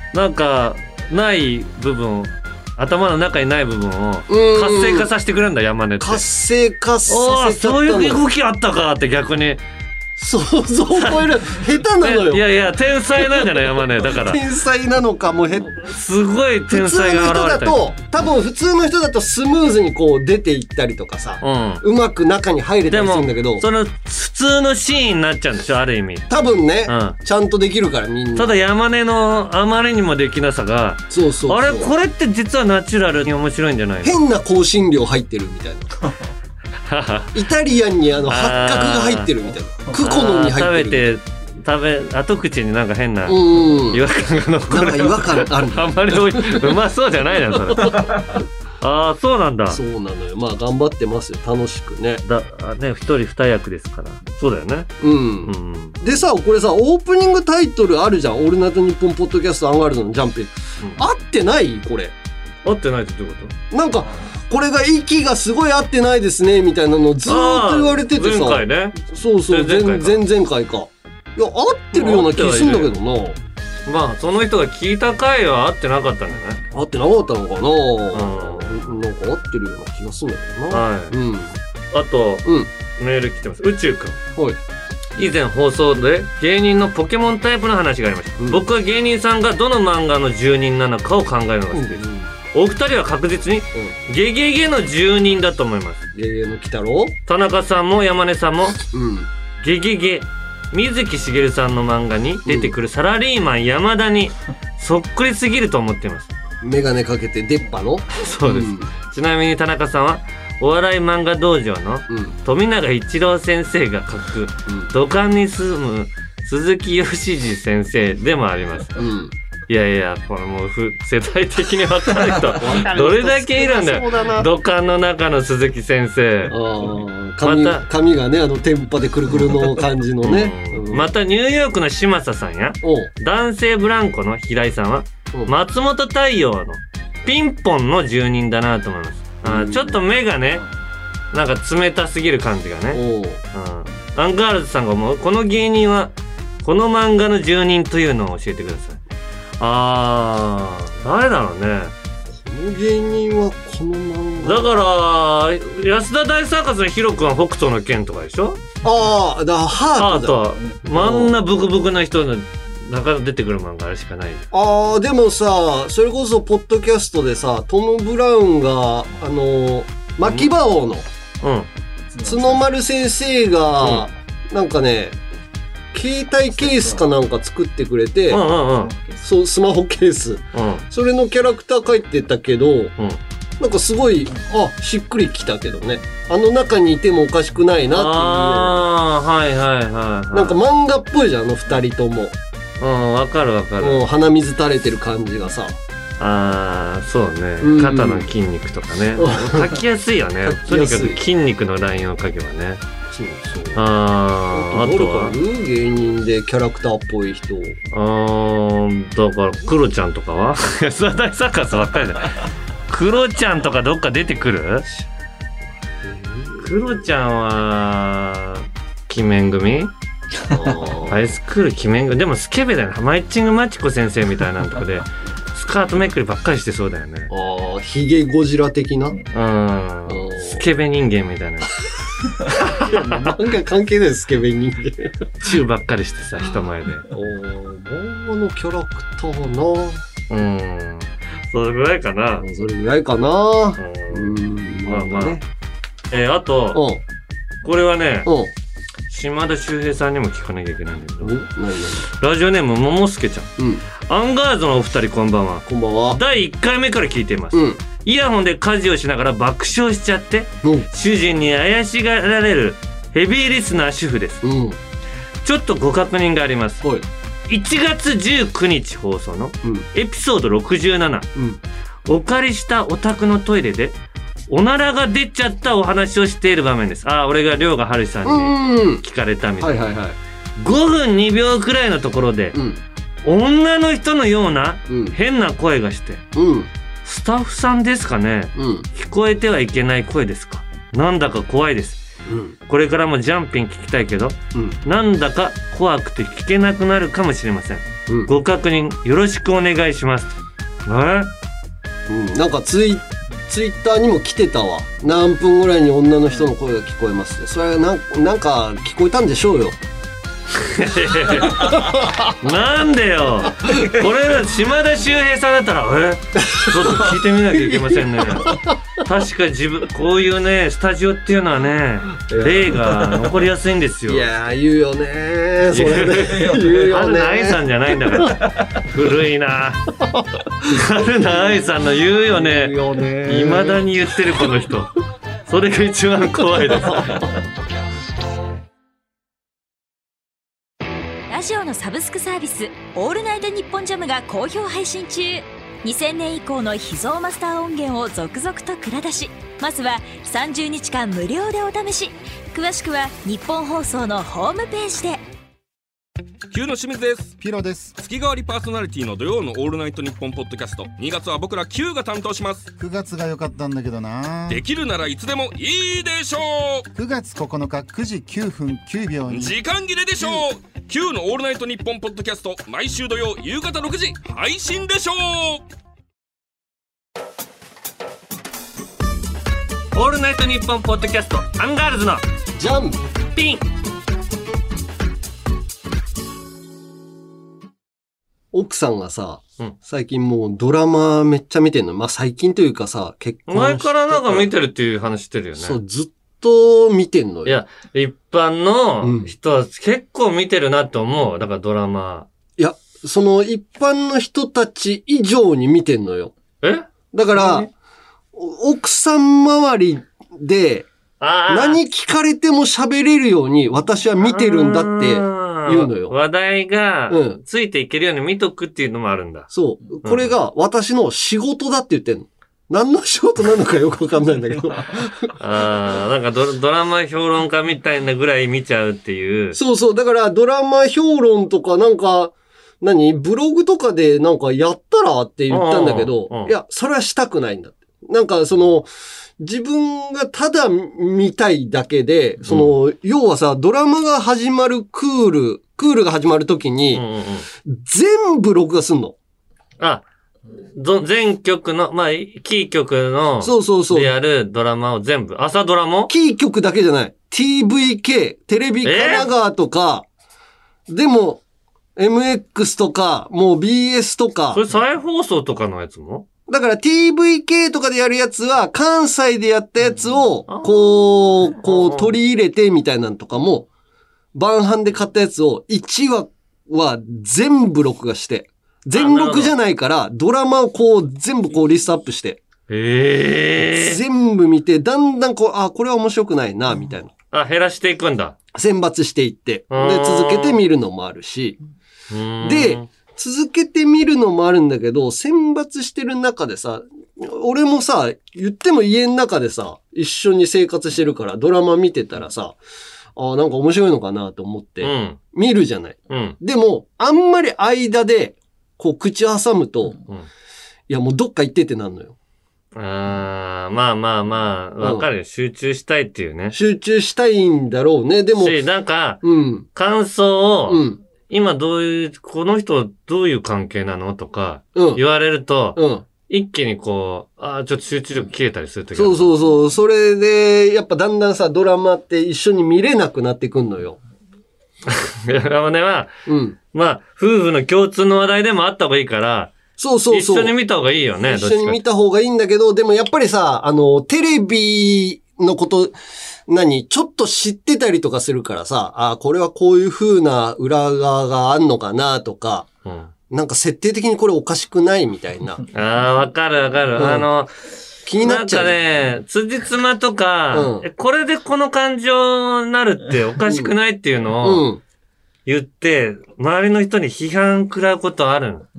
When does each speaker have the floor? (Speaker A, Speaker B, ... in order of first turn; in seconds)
Speaker A: 0.1-6.2, 7.1-9.6, 10.9-14.4, 15.8-17.8, 21.4-21.8, 22.9-26.3, 26.8-27.2, 28.3-34.2, 36.9-37.4, 38.3-39.3, 39.9-48.2, 48.8-49.8, 52.2-54.9, 55.4-56.0, 62.6-63.5, 67.2-70.2, 71.9-72.9, 73.8-76.6, 78.1-78.9, 80.7-81.2, 81.9-84.2, 85.2-96.0, 97.3-98.8, 99.6-106.3, 108.1-119.0, 119.7-126.6, 127.4-127.8, 130.2-140.6, 141.3-149.0, 149.6-151.9, 154.4-158.6, 159.9-164.5, 170.2-170.5, 171.4-171.7, 178.3-178.9, 180.5-180.8, 187.9-190.6, 192.8-194.0, 196.2-202.8, 203.7-205.4, 207.9-214.9, 216.6-219.9, 221.1-227.3, 229.3-233.0, 235.4-237.1, 240.3-242.4, 243.8-245.4, 246.1-246.8, 247.6-248.3, 249.1-251.4, 252.1-253.5, 254.1-264.4, 265.4-266.8, 267.5-271.3, 272.1-273.9, 274.5-279.8, 280.6-282.6, 283.2-286.2, 287.0-292.0, 292.7-301.3, 310.5-324.3, 325.7-329.8, 330.6-334.9, 335.5-337.2, 379.9-382.2, 383.3-383.6, 393.5-395.8, 397.4-402.3, 406.6-407.7, 411.2-411.8, 414.2-419.5, 420.0-420.3, 425.4-429.6, 435.5-436.5, 446.9-447.5, 449.8-450.0, 450.7-456.1, 458.8-459.3, 464.5-466.2, 470.5-472.1, 478.9-479.5, 482.7-484.0, 487.3-488.4, 489.7-490.6, 492.1-492.9, 504.8-505.2, 506.1-506.4, 512.7-516.5, 518.4-519.2, 519.7-529.3, 534.9-536.1, 536.7-539.5, 540.1-541.8, 552.8-553.1, 555.7-557.5, 558.2-564.6, 565.5-568.7
Speaker B: 4.3-5.1, 6.0-8.2, 10.2-12.5, 13.2-15.8, 16.7-23.6, 26.3-28.6, 31.1-31.9, 34.0-35.9, 37.3-41.0, 43.2-44.0, 44.7-46.7, 47.8-48.2, 49.7-52.2, 55.0-62.1, 63.7-73.4, 76.7-81.5, 82.4-82.7, 88.4-88.7, 91.7-92.3, 96.1-97.2, 98.9-99.3, 102.4-102.7, 106.6-108.9, 112.1-112.4, 114.7-114.9, 119.0-119.3, 122.4-124.5, 126.5-131.1, 132.8-133.1, 139.4-140.0, 142.9-143.4, 152.3-154.7, 158.8-161.4, 164.5-171.1, 172.2-175.2, 175.9-178.5, 179.1-182.9, 183.6-188.9, 190.3-192.3, 193.8-195.8, 197.6-198.3, 199.1-199.8, 200.4-201.2, 203.1-203.9, 204.5-207.8, 216.0-216.7, 220.5-221.2, 227.3-229.2, 230.1-230.6, 232.5-235.3, 237.1-240.0, 242.4-245.4, 246.7-247.0, 248.2-248.5, 251.2-252.1, 253.6-253.8, 255.7-256.2, 257.5-257.8, 260.6-260.9, 264.4-264.8, 271.3-271.6, 278.2-279.0, 279.6-280.2, 282.5-282.8, 284.9-285.1, 286.3-286.7, 288.6-288.9, 292.2-292.5, 298.1-298.3, 302.1-309.8, 311.5-312.3, 316.5-318.8, 322.3-323.0, 324.1-328.3, 330.0-330.4, 332.3-334.0, 336.9-337.3, 382.6-383.0, 388.5-394.5, 395.6-397.6, 399.0-399.3, 402.6-406.3, 407.1-407.7, 408.3-410.9, 411.5-416.1, 417.1-417.4, 419.5-425.3, 429.5-447.0, 447.6-449.1, 453.4-454.1, 456.1-460.1, 460.9-461.4, 461.9-464.6, 466.5-473.7, 474.3-482.4, 483.7-487.1, 488.5-491.6, 492.4-502.6, 503.1-510.0, 510.9-512.1, 514.8-515.1, 516.5-518.6, 519.2-519.6, 520.7-521.0, 524.7-525.0, 525.8-526.0, 528.9-534.0, 536.2-536.6, 539.8-540.5, 541.2-545.9, 546.5-552.7, 553.3-555.6, 556.9-557.3, 558.0-558.7, 560.5-560.9, 563.4-563.7, 564.4-564.8
Speaker C: 341.3-355.2
Speaker D: 356.5-357.3, 358.0-362.7, 364.5-366.9, 369.3-375.6
Speaker E: 357.4-357.9, 362.8-364.6, 366.9-369.6